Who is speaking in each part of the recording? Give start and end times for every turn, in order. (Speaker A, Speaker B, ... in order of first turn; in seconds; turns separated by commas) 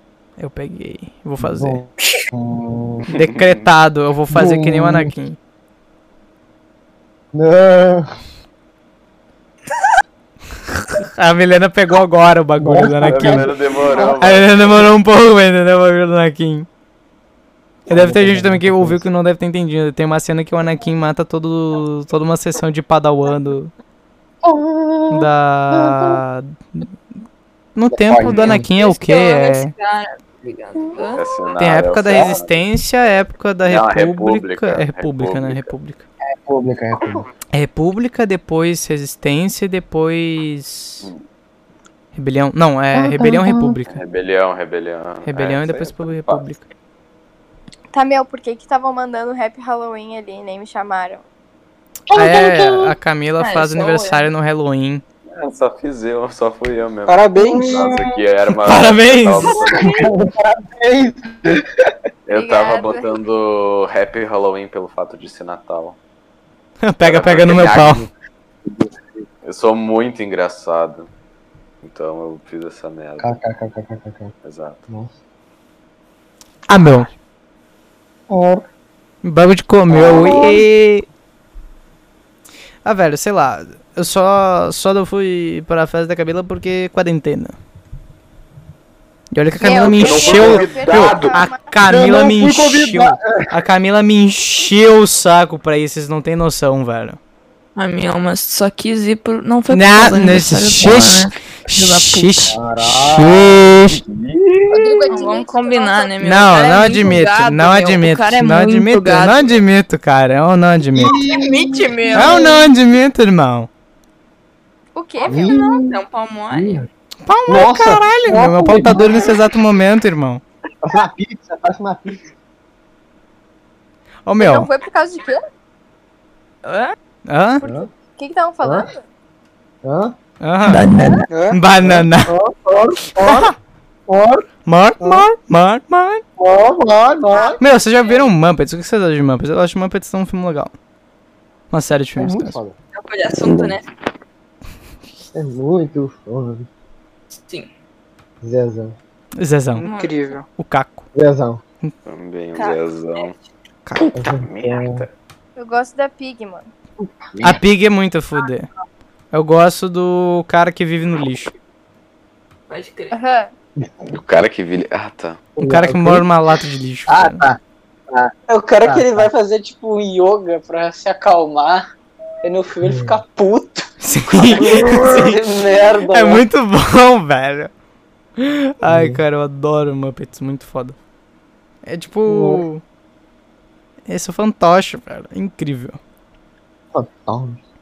Speaker A: 0.4-1.8, Speaker B: 1.4-3.1, Speaker C: 3.1-3.6, Speaker A: 3.1-5.4, Speaker B: 4.3-5.1, Speaker B: 7.3-8.1, Speaker A: 10.9-13.5, Speaker B: 12.6-14.4, Speaker C: 13.0-14.9, Speaker A: 14.2-16.7, Speaker B: 17.9-19.1, Speaker A: 17.9-23.7, Speaker B: 24.4-26.2, Speaker A: 25.1-26.9, Speaker A: 27.7-29.7, Speaker B: 27.9-28.6, Speaker D: 28.2-31.3, Speaker C: 31.1-32.6, Speaker A: 31.6-36.0, Speaker C: 33.6-35.7, Speaker B: 36.4-37.2, Speaker A: 37.5-41.1, Speaker A: 42.1-44.0, Speaker B: 42.9-43.8, Speaker C: 43.9-46.4, Speaker A: 45.2-46.6, Speaker E: 47.9-51.2, Speaker B: 52.1-52.9, Speaker A: 52.1-55.0, Speaker D: 53.4-54.3, Speaker C: 55.3-60.0, Speaker F: 57.1-57.8, Speaker B: 57.5-58.0, Speaker A: 58.6-59.6, Speaker D: 59.4-60.1, Speaker B: 59.7-61.6, Speaker C: 62.3-66.0, Speaker E: 62.3-63.2, Speaker A: 66.8-68.0, Speaker C: 67.0-68.0, Speaker B: 68.7-69.0, Speaker C: 69.4-71.1, Speaker C: 71.8-73.4, Speaker B: 73.2-74.3, Speaker C: 74.4-74.8, Speaker A: 76.7-77.1, Speaker B: 78.3-78.7, Speaker A: 79.2-81.0, Speaker B: 79.9-80.3, Speaker C: 80.1-80.5, Speaker A: 82.8-87.5, Speaker A: 89.3-97.2, Speaker E: 89.6-91.7, Speaker C: 89.7-91.4, Speaker B: 91.8-93.5, Speaker D: 97.8-102.3, Speaker A: 99.7-104.0, Speaker B: 102.5-103.7, Speaker E: 104.7-106.2, Speaker D: 105.1-109.6, Speaker A: 106.2-111.2, Speaker B: 111.0-112.5, Speaker D: 111.0-112.6, Speaker A: 112.1-113.7, Speaker E: 114.9-115.8, Speaker D: 115.2-116.9, Speaker B: 115.3-115.9, Speaker B: 116.5-116.9, Speaker A: 117.2-120.4, Speaker B: 117.5-119.4, Speaker B: 120.8-122.2, Speaker A: 124.2-124.7, Speaker E: 124.4-125.4, Speaker D: 126.6-126.9, Speaker A: 127.3-127.6, Speaker B: 127.6-127.9, Speaker E: 127.6-129.0, Speaker B: 128.6-128.9, Speaker B: 129.8-130.1, Speaker A: 130.4-131.0, Speaker D: 130.6-131.2, Speaker F: 131.3-131.6, Speaker A: 131.5-132.3, Speaker B: 131.8-133.5, Speaker A: 133.1-133.5, Speaker B: 134.1-134.5, Speaker A: 134.7-136.2, Speaker B: 135.0-135.2, Speaker B: 136.4-137.6, Speaker A: 137.6-140.7, Speaker A: 141.7-142.6, Speaker B: 142.2-142.8, Speaker D: 142.9-143.8, Speaker B: 145.3-146.7, Speaker D: 147.4-147.7, Speaker B: 148.4-148.9, Speaker A: 149.4-149.8, Speaker F: 149.8-150.4, Speaker D: 149.8-150.3, Speaker A: 150.5-151.1, Speaker B: 151.1-151.6, Speaker C: 152.1-153.3, Speaker D: 152.5-153.3, Speaker A: 153.8-154.3, Speaker B: 154.1-155.0, Speaker C: 154.3-155.1, Speaker E: 155.6-156.7, Speaker B: 157.0-157.6, Speaker A: 157.4-158.7, Speaker A: 159.3-161.5, Speaker D: 162.7-163.2, Speaker E: 163.1-163.5, Speaker B: 163.8-164.1, Speaker C: 164.1-165.4, Speaker B: 165.6-166.3, Speaker A: 165.6-167.4, Speaker B: 167.1-167.6, Speaker F: 168.5-171.8, Speaker B: 168.8-169.3, Speaker F: 172.4-176.4, Speaker B: 172.8-173.2, Speaker A: 174.0-175.4, Speaker B: 174.6-175.3, Speaker A: 176.1-177.7, Speaker A: 178.4-180.9, Speaker B: 178.8-179.2, Speaker A: 181.8-182.8, Speaker B: 182.2-182.6, Speaker A: 184.1-186.0, Speaker B: 186.9-187.6